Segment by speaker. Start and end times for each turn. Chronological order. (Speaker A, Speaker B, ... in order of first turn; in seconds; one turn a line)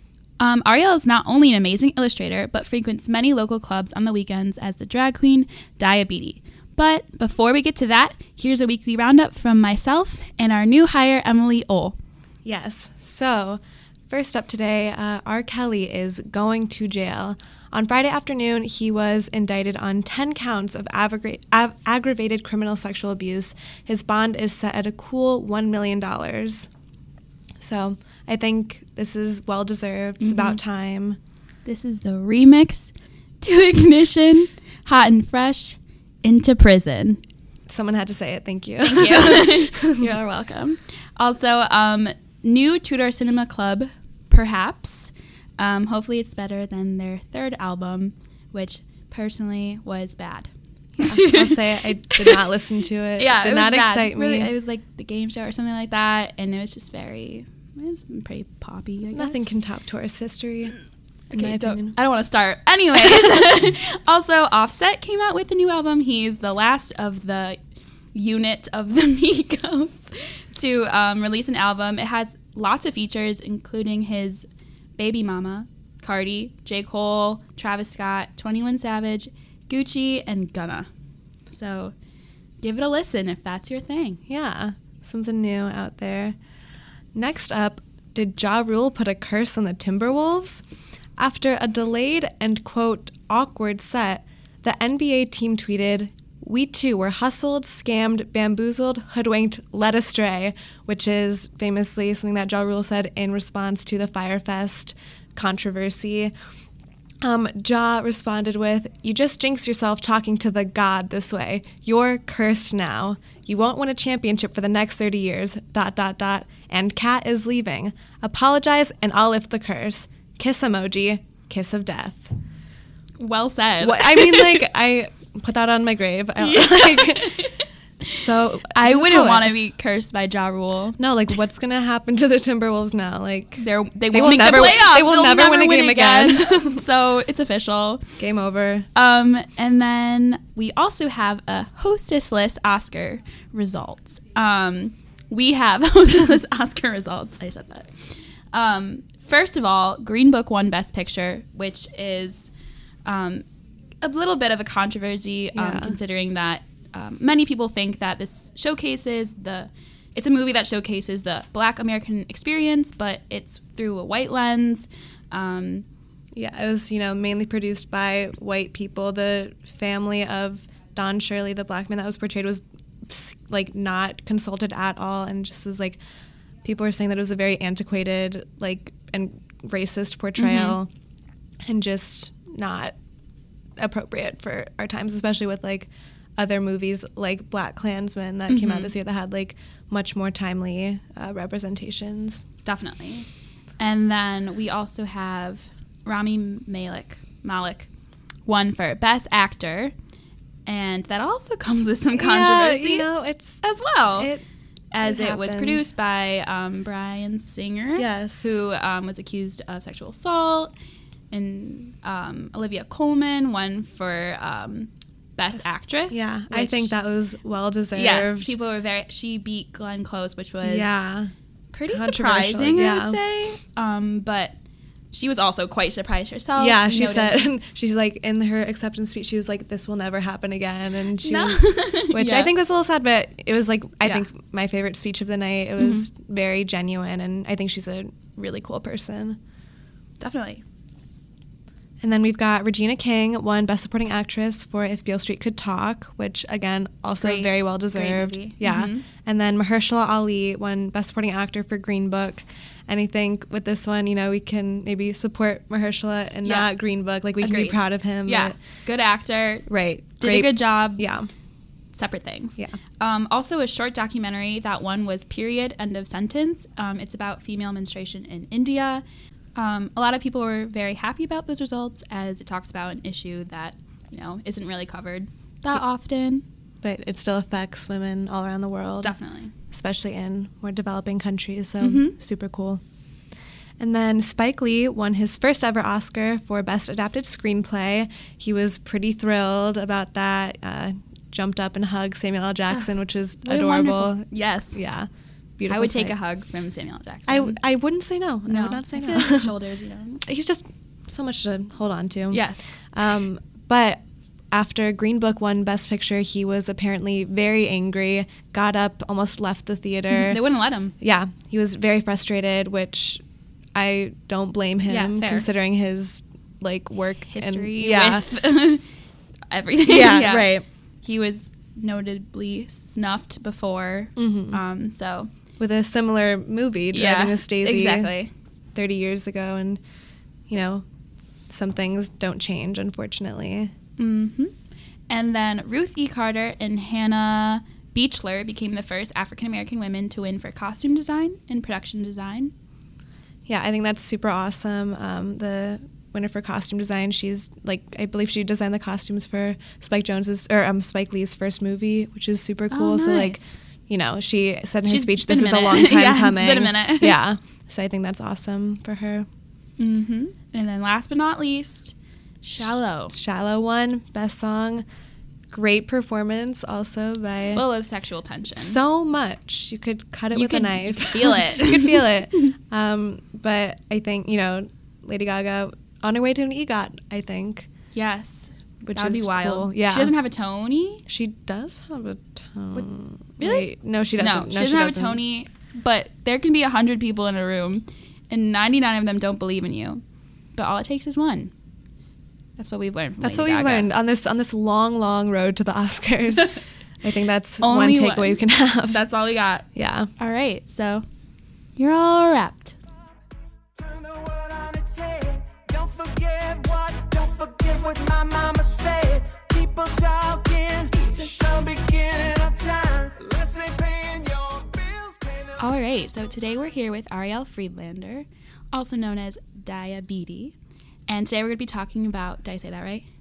Speaker A: 0.4-11.9
Speaker B: 12.4-26.7
Speaker B: 27.6-31.2
Speaker A: 30.2-30.6
Speaker A: 31.6-37.2
Speaker B: 37.7-40.1
Speaker A: 38.8-52.4
Speaker B: 51.0-54.5
Speaker A: 53.2-59.5
Speaker B: 59.1-60.8
Speaker A: 61.3-67.6
Speaker B: 61.3-62.0
Speaker A: 68.1-74.4
Speaker A: 75.0-80.9
Speaker A: 81.5-81.9
Speaker A: 82.6-84.2
Speaker B: 84.3-86.4
Speaker B: 87.1-90.6
Speaker B: 91.2-106.3
Speaker B: 107.2-122.3
Speaker A: 123.2-124.6
Speaker B: 123.8-127.5
Speaker A: 126.4-128.2
Speaker B: 128.1-129.5
Speaker A: 128.7-131.0
Speaker B: 131.0-136.8
Speaker A: 133.6-138.2
Speaker B: 138.2-138.9
Speaker A: 138.9-152.5
Speaker A: 153.0-153.4
Speaker A: 154.0-165.8
Speaker B: 155.5-156.0
Speaker B: 166.3-176.0
Speaker B: 176.6-180.9
Speaker A: 180.4-180.8
Speaker B: 181.6-182.9
Speaker B: 183.8-192.4
Speaker A: 188.5-188.9
Speaker A: 192.6-197.9
Speaker A: 198.4-199.9
Speaker A: 200.7-204.3
Speaker B: 202.1-203.6
Speaker B: 204.1-204.4
Speaker A: 204.9-210.7
Speaker B: 205.0-205.9
Speaker B: 207.9-208.5
Speaker A: 211.3-216.9
Speaker B: 215.5-218.6
Speaker A: 217.9-221.0
Speaker B: 220.6-221.3
Speaker A: 221.7-224.5
Speaker B: 221.9-223.2
Speaker A: 225.1-227.5
Speaker B: 226.6-239.4
Speaker A: 231.2-232.5
Speaker A: 235.8-236.1
Speaker A: 240.2-240.6
Speaker B: 242.0-258.6
Speaker A: 247.2-249.0
Speaker A: 256.4-256.7
Speaker A: 257.4-261.1
Speaker B: 259.7-261.3
Speaker A: 261.9-269.0
Speaker A: 269.6-276.4
Speaker B: 276.8-279.1
Speaker A: 279.0-279.5
Speaker B: 279.7-282.8
Speaker A: 281.8-282.1
Speaker B: 283.8-296.1
Speaker A: 293.4-294.8
Speaker A: 295.7-297.6
Speaker B: 297.3-299.5
Speaker A: 298.5-300.2
Speaker B: 300.2-310.4
Speaker A: 302.3-302.6
Speaker A: 310.1-310.9
Speaker B: 311.0-313.2
Speaker B: 313.7-318.3
Speaker A: 314.9-315.5
Speaker A: 317.3-318.8
Speaker A: 319.5-325.3
Speaker B: 319.9-320.6
Speaker B: 324.1-324.6
Speaker B: 325.6-328.1
Speaker A: 326.9-328.3
Speaker B: 328.7-329.8
Speaker B: 330.5-330.8
Speaker B: 331.5-333.7
Speaker A: 334.0-334.5
Speaker A: 335.1-342.5
Speaker B: 343.4-359.2
Speaker A: 352.7-353.6
Speaker A: 354.9-357.2
Speaker A: 359.8-363.1
Speaker B: 363.1-364.8
Speaker B: 365.5-367.6
Speaker A: 367.5-368.8
Speaker B: 368.6-377.7
Speaker A: 370.3-372.1
Speaker A: 377.9-381.0
Speaker B: 378.8-380.1
Speaker B: 381.1-385.2
Speaker A: 382.7-390.0
Speaker A: 390.5-391.5
Speaker A: 392.6-393.9
Speaker B: 393.2-399.0
Speaker A: 397.6-401.0
Speaker B: 399.7-400.1
Speaker A: 401.8-402.8
Speaker C: 403.8-415.7
Speaker A: 415.6-420.5
Speaker A: 421.1-423.0